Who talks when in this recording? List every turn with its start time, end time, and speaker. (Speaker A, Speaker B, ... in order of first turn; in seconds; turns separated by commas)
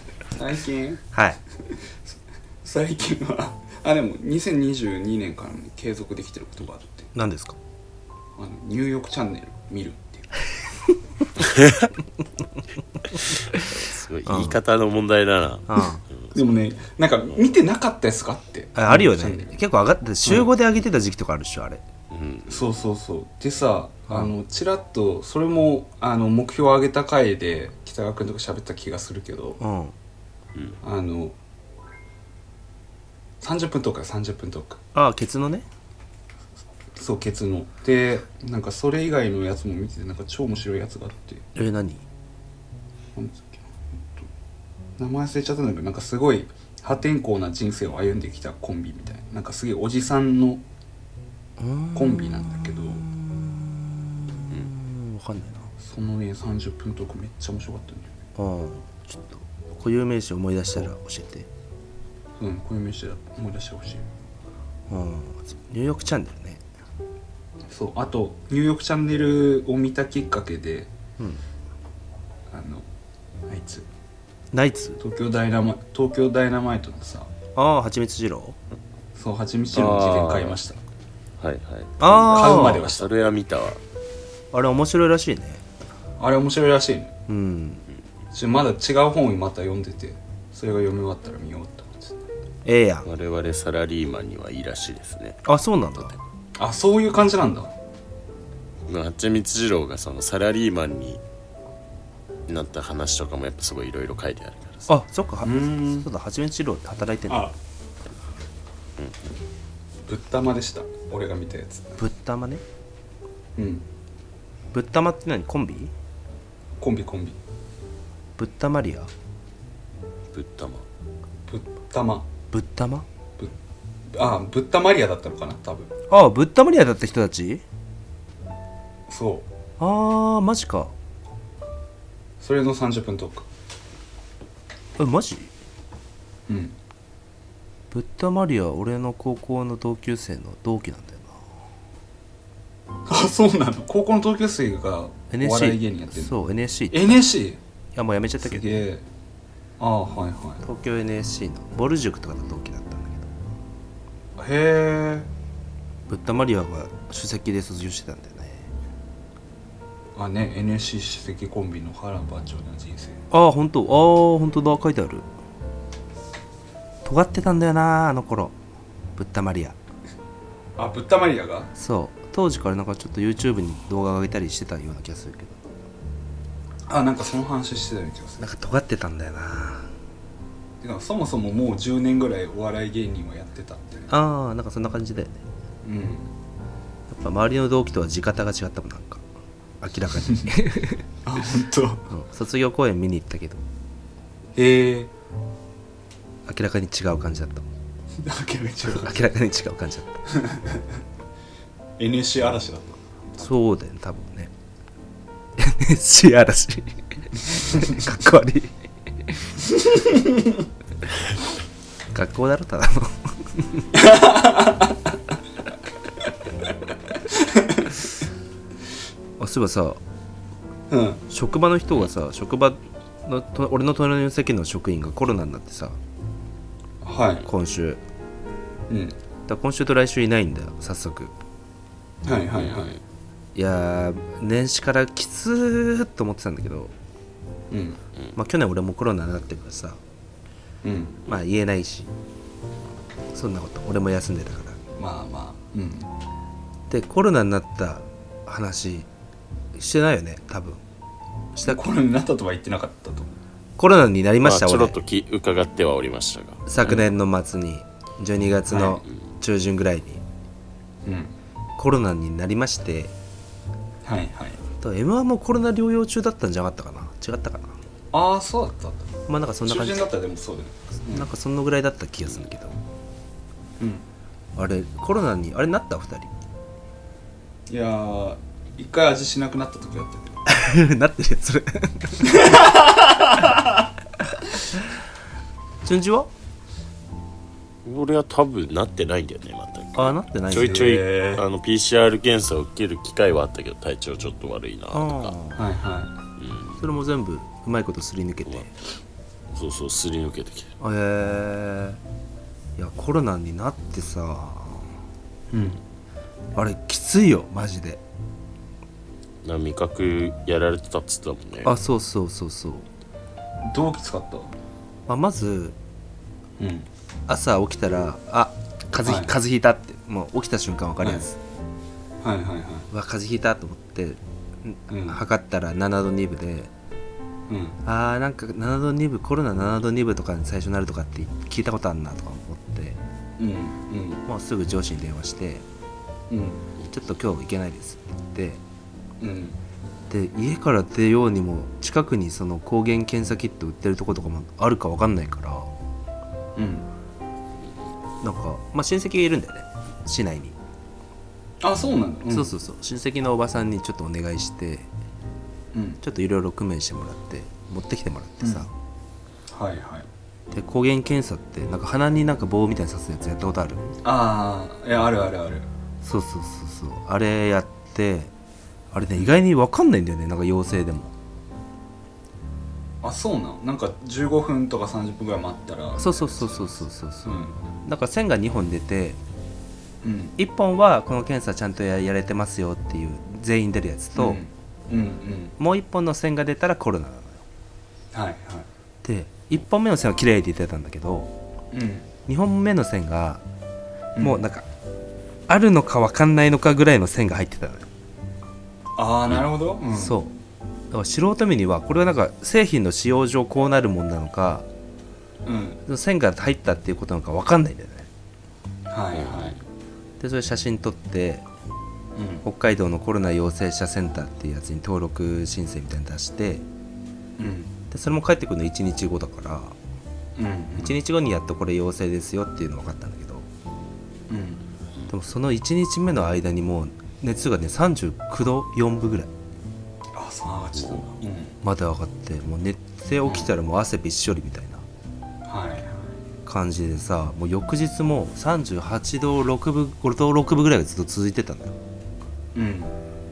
Speaker A: 0.3-1.1, Speaker B: 1.1-1.4, Speaker A: 1.7-7.1, Speaker B: 7.2-7.6, Speaker A: 8.4-10.3, Speaker C: 13.2-16.4, Speaker B: 14.3-14.6, Speaker B: 15.7-16.0, Speaker A: 16.3-19.6, Speaker B: 18.8-21.8, Speaker A: 20.2-20.5, Speaker C: 22.1-22.7, Speaker A: 22.5-29.6, Speaker B: 24.1-24.3, Speaker B: 29.6-29.9, Speaker A: 30.8-31.4, Speaker A: 33.4-34.8, Speaker B: 35.0-35.7, Speaker A: 36.9-41.5, Speaker B: 41.6-42.0, Speaker A: 43.1-44.3, Speaker A: 45.0-50.6, Speaker B: 51.6-55.7, Speaker A: 52.0-53.0, Speaker A: 55.8-58.1, Speaker B: 58.4-61.5, Speaker A: 62.4-64.0, Speaker B: 64.9-66.6, Speaker A: 67.7-70.9, Speaker A: 72.5-72.9, Speaker A: 73.5-73.9, Speaker B: 74.5-75.0, Speaker A: 75.0-77.3, Speaker B: 77.6-78.6, Speaker A: 79.2-80.8, Speaker C: 79.7-80.6, Speaker C: 81.4-83.8, Speaker B: 82.0-82.8, Speaker A: 82.3-83.1, Speaker B: 84.5-85.6, Speaker A: 86.2-87.1, Speaker B: 87.3-87.8, Speaker A: 88.3-92.3, Speaker B: 92.7-93.1, Speaker C: 93.0-95.4, Speaker B: 95.5-96.2, Speaker A: 96.6-97.7, Speaker C: 98.9-101.2, Speaker C: 102.5-104.9, Speaker B: 104.9-107.5, Speaker A: 105.4-106.1, Speaker A: 107.3-107.5, Speaker C: 109.0-109.2, Speaker A: 110.1-112.0, Speaker B: 112.0-112.6, Speaker A: 113.6-113.9, Speaker B: 114.7-115.9, Speaker A: 116.8-117.4, Speaker B: 118.4-119.1, Speaker C: 120.3-120.8, Speaker A: 121.5-122.3, Speaker B: 122.5-123.0, Speaker A: 124.1-125.9, Speaker B: 126.1-127.6, Speaker A: 129.1-129.5, Speaker B: 129.8-130.9, Speaker A: 132.4-133.5, Speaker B: 135.0-135.5, Speaker A: 136.5-136.8, Speaker B: 137.9-141.4, Speaker A: 143.1-146.3, Speaker B: 145.3-147.2, Speaker A: 146.9-147.6, Speaker B: 147.9-148.7, Speaker A: 148.4-149.0, Speaker A: 149.8-150.6, Speaker B: 150.6-153.3, Speaker A: 154.4-155.3, Speaker B: 156.1-158.7, Speaker A: 160.2-163.2, Speaker B: 163.3-165.3, Speaker B: 167.1-168.5, Speaker B: 169.2-169.8, Speaker A: 170.8-171.7, Speaker B: 171.8-175.6, Speaker A: 176.9-178.5, Speaker B: 178.4-179.9, Speaker A: 180.8-184.1, Speaker B: 184.1-185.4, Speaker A: 185.8-186.3, Speaker B: 187.1-189.2, Speaker B: 189.8-191.0, Speaker A: 191.2-192.1, Speaker B: 192.1-193.6, Speaker A: 194.6-195.1, Speaker B: 196.5-197.7, Speaker A: 198.2-199.2, Speaker B: 198.9-200.2, Speaker A: 200.3-200.9, Speaker A: 202.0-203.5, Speaker B: 203.4-204.5, Speaker B: 205.6-208.7, Speaker A: 209.8-210.6, Speaker B: 212.1-213.8, Speaker A: 213.9-215.1, Speaker A: 217.3-218.0, Speaker B: 219.4-220.0, Speaker A: 220.9-221.2, Speaker B: 221.3-226.0, Speaker A: 227.0-227.5, Speaker B: 227.5-228.0, Speaker A: 228.9-229.2, Speaker B: 229.5-231.3, Speaker A: 232.2-233.0, Speaker B: 233.6-236.9, Speaker A: 237.7-238.0, Speaker B: 238.4-240.0, Speaker A: 240.8-241.2, Speaker B: 241.3-242.1, Speaker B: 243.3-244.8, Speaker A: 245.0-246.1, Speaker B: 246.9-249.1, Speaker B: 249.7-250.8, Speaker B: 251.6-251.8, Speaker A: 251.6-253.4, Speaker B: 253.8-255.0, Speaker C: 254.4-256.7, Speaker B: 256.7-260.2, Speaker A: 258.7-259.0, Speaker A: 261.1-261.3, Speaker B: 261.8-263.1, Speaker A: 264.0-264.6, Speaker B: 264.8-267.8, Speaker A: 268.1-269.1, Speaker B: 269.3-270.1, Speaker A: 269.7-271.3, Speaker B: 271.1-272.8, Speaker A: 273.8-274.1, Speaker B: 274.6-276.3, Speaker A: 277.7-280.4, Speaker B: 280.5-282.6, Speaker A: 282.2-283.8, Speaker B: 285.8-286.3, Speaker C: 287.9-295.3, Speaker B: 290.0-291.0, Speaker A: 290.6-291.4, Speaker B: 294.9-295.7, Speaker A: 295.6-296.1, Speaker C: 296.4-296.8, Speaker B: 296.8-298.7, Speaker C: 299.5-300.7, Speaker B: 300.8-302.0, Speaker B: 302.8-304.9, Speaker A: 305.5-305.8, Speaker B: 306.6-308.0, Speaker C: 309.4-311.7, Speaker B: 311.6-312.9, Speaker A: 313.6-314.5, Speaker B: 315.1-315.8, Speaker A: 316.6-316.9, Speaker B: 317.3-321.4, Speaker A: 319.0-319.4, Speaker A: 321.0-321.3, Speaker A: 322.2-322.9, Speaker B: 322.9-326.7, Speaker A: 324.9-325.2, Speaker A: 327.5-327.8, Speaker B: 327.9-333.0, Speaker A: 333.4-334.2, Speaker B: 334.3-335.6, Speaker A: 336.3-336.7, Speaker B: 336.9-338.6, Speaker A: 339.2-339.6, Speaker B: 340.1-345.7, Speaker A: 346.6-346.9, Speaker B: 348.2-350.6, Speaker A: 351.6-352.5, Speaker B: 352.3-354.9, Speaker A: 355.7-356.0, Speaker B: 356.0-358.7, Speaker A: 358.4-358.7, Speaker A: 359.5-360.1, Speaker B: 360.5-363.9, Speaker A: 364.0-365.7, Speaker B: 366.0-368.3, Speaker B: 368.9-371.1, Speaker A: 373.0-377.6, Speaker B: 376.0-379.2, Speaker A: 380.0-380.4, Speaker B: 380.4-384.4, Speaker A: 384.2-385.6, Speaker B: 385.6-387.4, Speaker A: 388.1-388.7, Speaker B: 389.0-391.3, Speaker A: 391.7-392.1, Speaker B: 392.3-393.4, Speaker A: 394.2-394.4, Speaker B: 394.2-394.7, Speaker B: 395.5-397.9, Speaker A: 399.0-400.2, Speaker B: 399.9-400.4, Speaker B: 400.9-404.7, Speaker A: 405.4-405.8, Speaker B: 405.9-408.1, Speaker A: 408.9-409.6, Speaker C: 409.2-409.6, Speaker B: 410.2-411.4, Speaker A: 412.2-412.4, Speaker B: 412.4-416.6, Speaker A: 417.4-417.7, Speaker B: 417.9-419.8, Speaker A: 420.4-421.0, Speaker B: 420.8-423.5, Speaker A: 424.3-424.6, Speaker B: 425.1-429.3, Speaker A: 430.1-431.6, Speaker C: 430.8-431.1, Speaker B: 431.6-434.8, Speaker A: 433.2-433.5, Speaker A: 435.4-436.0, Speaker B: 436.4-441.8, Speaker A: 442.6-442.9